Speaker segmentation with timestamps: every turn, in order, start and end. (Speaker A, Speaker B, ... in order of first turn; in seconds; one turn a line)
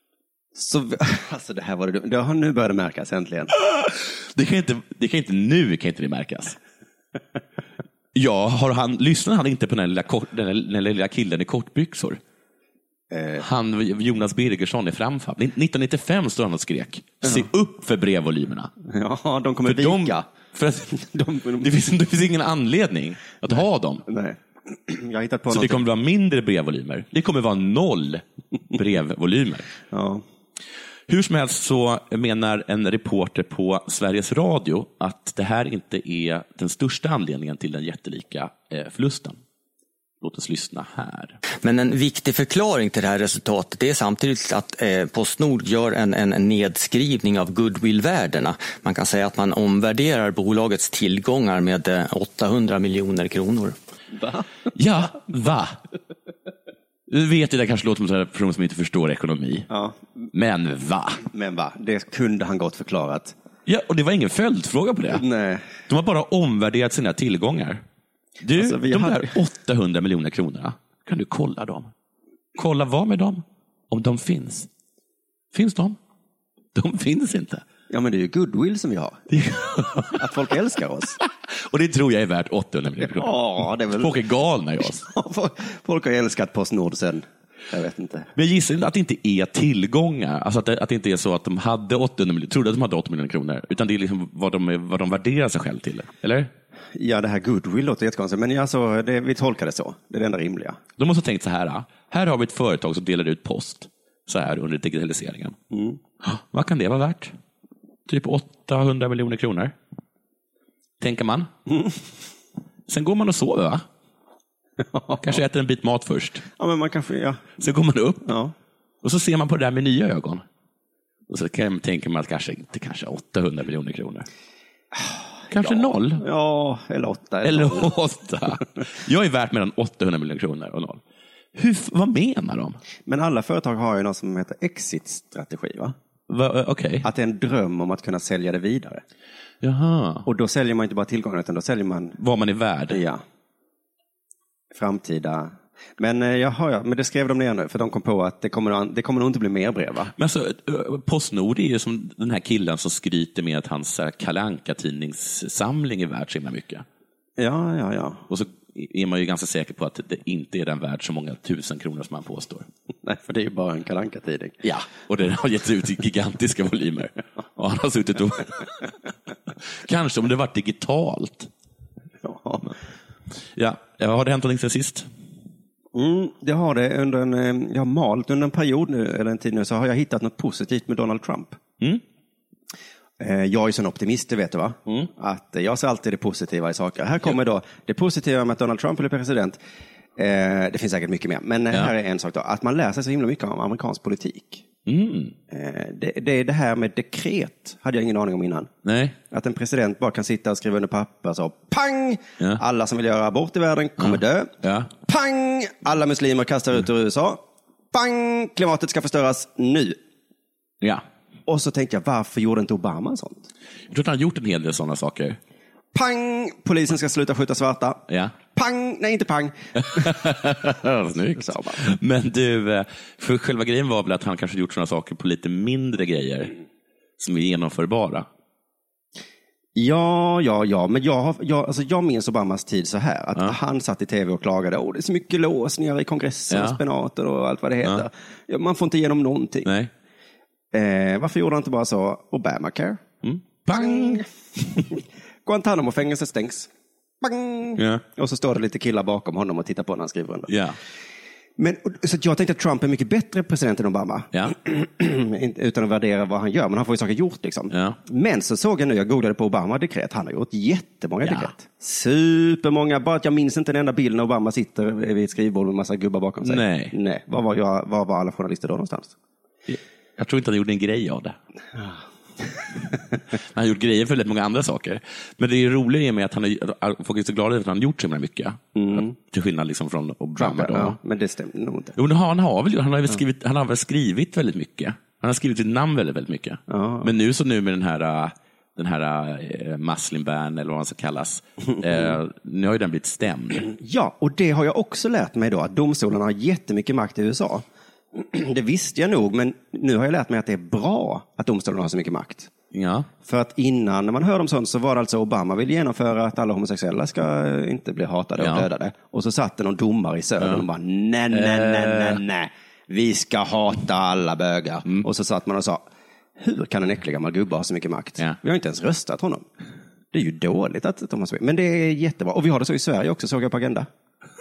Speaker A: 0.5-3.5
Speaker B: 3.6-6.6
Speaker B: 8.1-12.2
Speaker A: 13.1-13.4
Speaker B: 13.4-18.7
Speaker A: 18.8-20.3
Speaker B: 19.6-20.9
Speaker A: 20.9-21.7
Speaker B: 21.6-24.1
Speaker A: 24.1-25.8
Speaker B: 25.5-29.7
Speaker A: 29.9-30.2
Speaker B: 31.1-39.4
Speaker B: 40.2-41.4
Speaker C: 41.6-53.8
Speaker A: 54.1-54.5
Speaker B: 54.7-55.8
Speaker B: 57.1-59.7
Speaker A: 59.7-60.0
Speaker B: 60.3-61.2
Speaker A: 61.2-63.3
Speaker B: 63.6-65.2
Speaker A: 65.1-65.7
Speaker B: 65.9-67.8
Speaker B: 68.4-71.9
Speaker A: 68.5-69.3
Speaker B: 72.5-74.7
Speaker B: 75.5-76.0
Speaker B: 76.7-77.6
Speaker A: 77.9-79.3
Speaker B: 79.3-80.2
Speaker A: 80.1-81.2
Speaker B: 81.5-83.4
Speaker A: 83.0-84.2
Speaker B: 83.9-85.0
Speaker A: 85.0-88.3
Speaker B: 88.3-96.5
Speaker A: 96.9-100.8
Speaker B: 101.0-105.5
Speaker A: 105.7-106.0
Speaker B: 106.2-107.3
Speaker B: 108.1-109.7
Speaker B: 111.0-111.5
Speaker A: 111.7-111.9
Speaker B: 112.9-113.8
Speaker A: 114.8-115.4
Speaker B: 115.2-116.4
Speaker A: 116.6-117.5
Speaker B: 117.6-118.3
Speaker A: 118.2-118.5
Speaker B: 119.0-120.4
Speaker B: 121.3-124.3
Speaker A: 124.9-127.9
Speaker B: 125.5-126.2
Speaker B: 127.4-131.0
Speaker B: 131.5-132.8
Speaker A: 133.1-135.9
Speaker B: 136.3-137.1
Speaker A: 137.0-139.0
Speaker B: 139.6-140.3
Speaker A: 140.2-142.2
Speaker B: 142.2-143.0
Speaker A: 142.9-143.2
Speaker A: 144.7-150.1
Speaker B: 150.1-156.8
Speaker A: 157.4-158.2
Speaker B: 158.3-162.7
Speaker A: 163.0-164.6
Speaker B: 164.6-168.8
Speaker B: 169.8-171.5
Speaker A: 172.2-172.7
Speaker B: 173.6-175.1
Speaker A: 175.9-181.6
Speaker A: 183.2-189.6
Speaker A: 190.2-194.6
Speaker B: 194.8-195.3
Speaker A: 195.5-198.7
Speaker B: 198.8-199.2
Speaker A: 199.3-210.0
Speaker B: 204.0-204.9
Speaker A: 211.5-213.5
Speaker B: 213.9-215.4
Speaker A: 215.9-220.2
Speaker B: 218.1-218.3
Speaker B: 219.9-226.5
Speaker A: 221.3-221.8
Speaker B: 227.2-228.3
Speaker A: 229.8-239.7
Speaker B: 236.5-236.8
Speaker B: 239.6-239.9
Speaker A: 240.7-243.0
Speaker B: 243.2-244.2
Speaker A: 243.7-244.2
Speaker A: 244.9-246.7
Speaker A: 247.2-250.5
Speaker B: 247.8-248.0
Speaker B: 250.5-250.8
Speaker A: 251.6-269.1
Speaker B: 257.7-258.0
Speaker B: 261.2-261.5
Speaker B: 266.4-266.9
Speaker B: 269.7-271.4
Speaker A: 271.7-272.0
Speaker B: 273.5-281.0
Speaker A: 278.7-279.1
Speaker A: 280.4-282.0
Speaker B: 281.9-293.7
Speaker A: 286.7-287.1
Speaker A: 293.7-302.5
Speaker B: 302.7-303.1
Speaker A: 303.2-315.8
Speaker B: 308.4-308.7
Speaker B: 310.4-310.6
Speaker B: 311.3-312.2
Speaker A: 316.4-319.4
Speaker A: 320.1-323.9